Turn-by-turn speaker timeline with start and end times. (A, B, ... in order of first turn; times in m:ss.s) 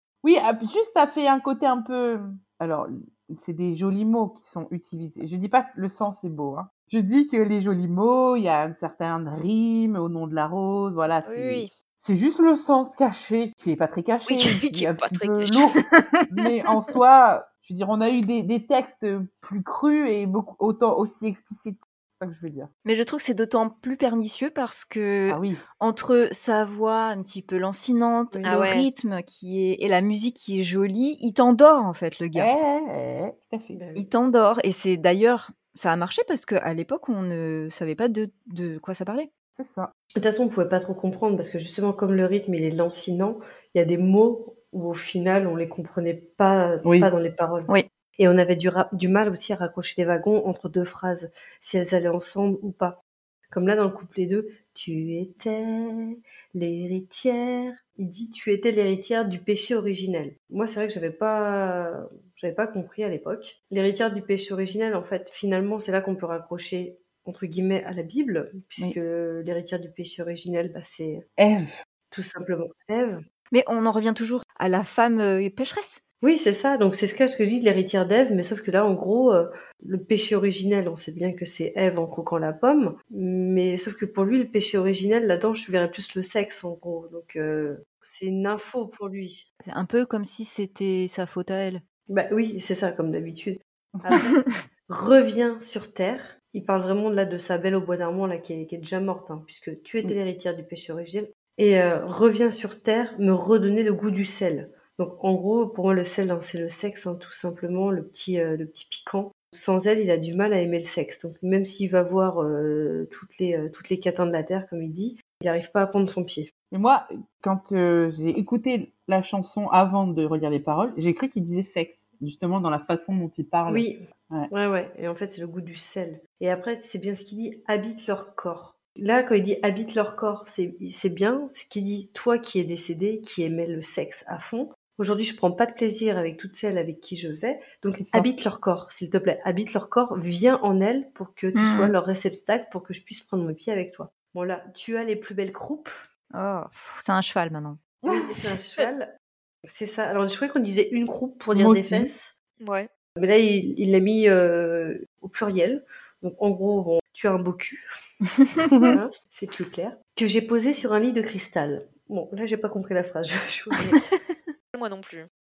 0:00.2-0:22.7 A
0:11.3-0:11.7 B
0:14.3-0:15.6 B
0:22.8-0:32.5 C
0:25.3-0:25.6 A
0:28.3-0:28.7 D
0:28.5-0:28.9 B
0:32.4-0:33.8 A
0:33.7-0:34.1 D
0:34.0-0:39.3 C
0:39.6-0:39.9 A
0:40.2-0:53.0 D
0:46.8-0:47.1 A
0:53.5-1:11.2 D
1:11.4-1:11.8 A
1:12.1-1:13.2 D
1:13.5-1:16.0 C
1:16.2-1:29.4 D
1:29.6-1:31.8 C
1:32.1-1:56.5 D
1:56.7-2:04.5 A
2:03.7-2:26.1 D
2:18.0-2:18.3 A
2:21.5-2:22.0 C
2:26.3-2:27.8 C
2:28.1-2:29.1 D
2:29.7-2:32.3 D
2:31.5-2:32.1 A
2:32.6-2:32.9 B
2:33.2-2:37.8 D
2:38.7-2:39.0 A
2:38.9-2:44.1 D
2:44.7-2:45.3 B